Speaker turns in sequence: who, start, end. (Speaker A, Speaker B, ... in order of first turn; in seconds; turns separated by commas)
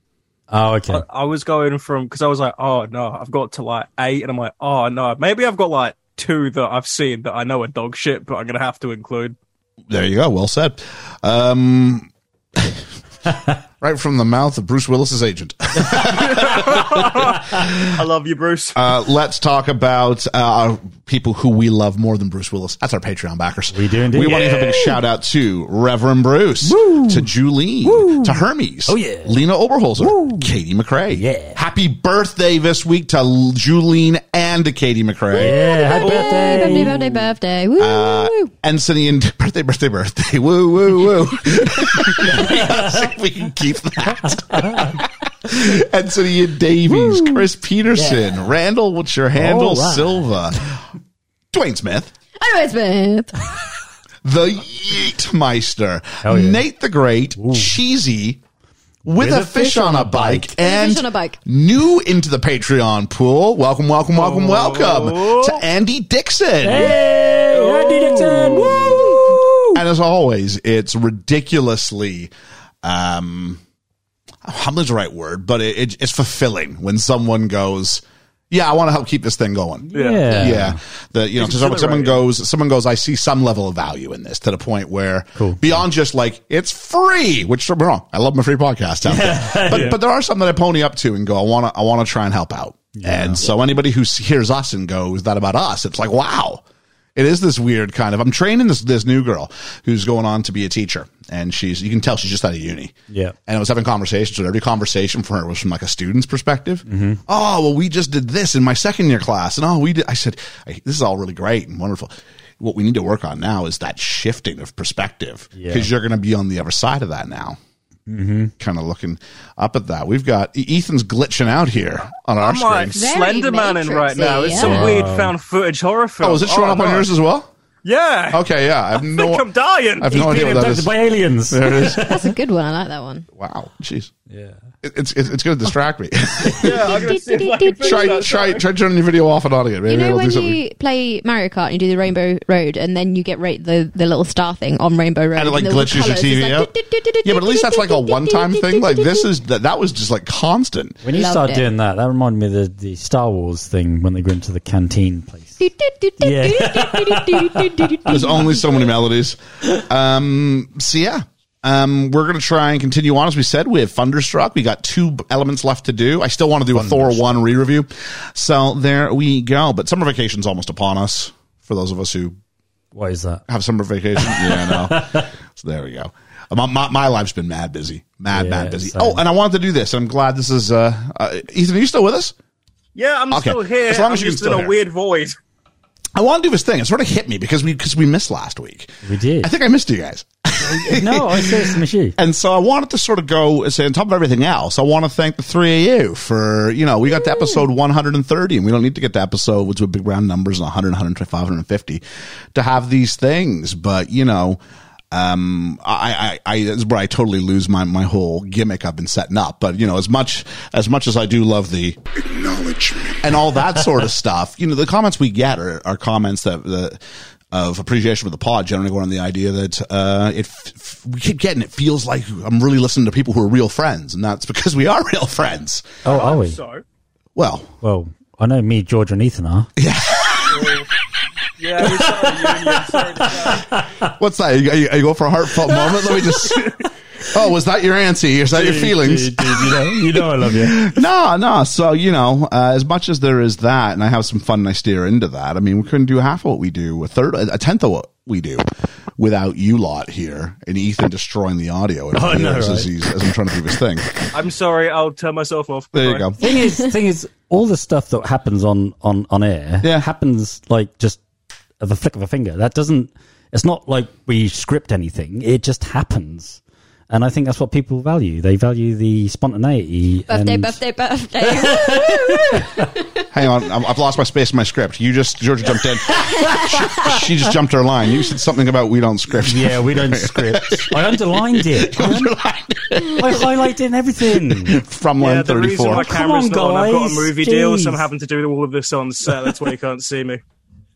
Speaker A: 0.5-1.0, Speaker B: 0.9-9.3, Speaker C: 9.9-12.8, Speaker C: 13.8-17.9, Speaker B: 16.1-18.8, Speaker C: 18.7-35.6, Speaker A: 23.7-24.6, Speaker B: 24.2-24.9, Speaker A: 26.6-27.3, Speaker A: 27.8-29.4, Speaker A: 30.0-30.5, Speaker A: 31.1-31.6, Speaker A: 35.4-37.2, Speaker D: 35.4-38.5, Speaker B: 36.0-36.8, Speaker C: 37.8-50.8, Speaker A: 42.1-42.9, Speaker A: 44.6-45.0, Speaker A: 48.0-48.3, Speaker A: 49.4-50.3, Speaker C: 51.5-52.1, Speaker D: 52.4-53.4, Speaker C: 54.2-58.4, Speaker A: 56.2-56.6, Speaker A: 57.4-57.7, Speaker A: 59.0-60.5, Speaker C: 59.0-67.0, Speaker D: 60.5-61.4, Speaker B: 64.1-65.6, Speaker A: 66.6-69.8, Speaker B: 67.5-68.8, Speaker C: 69.7-72.3, Speaker C: 72.8-73.6, Speaker C: 74.4-96.6, Speaker A: 79.9-80.8, Speaker B: 79.9-80.5, Speaker B: 81.4-82.2, Speaker A: 85.4-85.8, Speaker A: 89.0-89.9, Speaker B: 89.7-90.0, Speaker A: 93.0-93.4, Speaker C: 97.1-117.6, Speaker A: 103.1-103.3, Speaker A: 106.9-107.2, Speaker A: 115.6-115.9, Speaker A: 118.1-118.5, Speaker C: 118.6-123.0, Speaker B: 122.4-127.1, Speaker D: 122.9-125.0, Speaker A: 124.5-125.3, Speaker C: 126.2-127.5, Speaker B: 127.8-130.8, Speaker C: 128.3-129.5, Speaker C: 130.0-130.9, Speaker A: 130.1-132.3, Speaker C: 131.5-132.0, Speaker D: 131.7-133.2, Speaker C: 133.4-134.1, Speaker A: 134.3-134.6, Speaker C: 134.8-137.0, Speaker B: 136.6-138.6, Speaker D: 136.6-138.3, Speaker C: 137.8-140.6, Speaker D: 139.9-149.3, Speaker C: 145.3-146.7, Speaker C: 147.2-151.0, Speaker A: 151.0-155.6, Speaker D: 151.1-151.7, Speaker D: 155.6-158.8, Speaker A: 156.2-158.3, Speaker C: 158.1-172.3, Speaker A: 166.7-167.2, Speaker A: 172.9-173.4, Speaker C: 173.5-182.3, Speaker A: 174.2-175.3, Speaker A: 178.3-179.2, Speaker B: 182.9-185.4, Speaker C: 183.3-184.7, Speaker C: 186.1-202.0, Speaker A: 189.0-189.5, Speaker A: 190.7-192.2, Speaker C: 202.5-204.6, Speaker C: 205.1-217.0, Speaker C: 217.5-225.9, Speaker A: 226.0-226.6, Speaker B: 226.0-226.8, Speaker C: 227.3-227.7, Speaker A: 227.8-229.7, Speaker C: 229.8-230.7, Speaker B: 230.5-230.9, Speaker B: 231.6-233.7, Speaker A: 232.7-234.1, Speaker C: 234.0-236.7, Speaker B: 236.5-236.8, Speaker C: 237.3-248.7, Speaker A: 238.5-240.9, Speaker C: 249.2-254.1, Speaker A: 252.1-252.9, Speaker B: 254.3-256.3, Speaker C: 255.9-256.4, Speaker A: 256.4-261.2, Speaker A: 261.8-270.8, Speaker D: 270.3-273.0, Speaker A: 271.5-272.8, Speaker C: 273.3-283.7, Speaker D: 276.1-277.2, Speaker A: 276.6-277.0, Speaker A: 279.4-282.3, Speaker A: 283.1-284.8, Speaker C: 284.3-286.1, Speaker B: 285.2-290.4, Speaker A: 285.9-288.1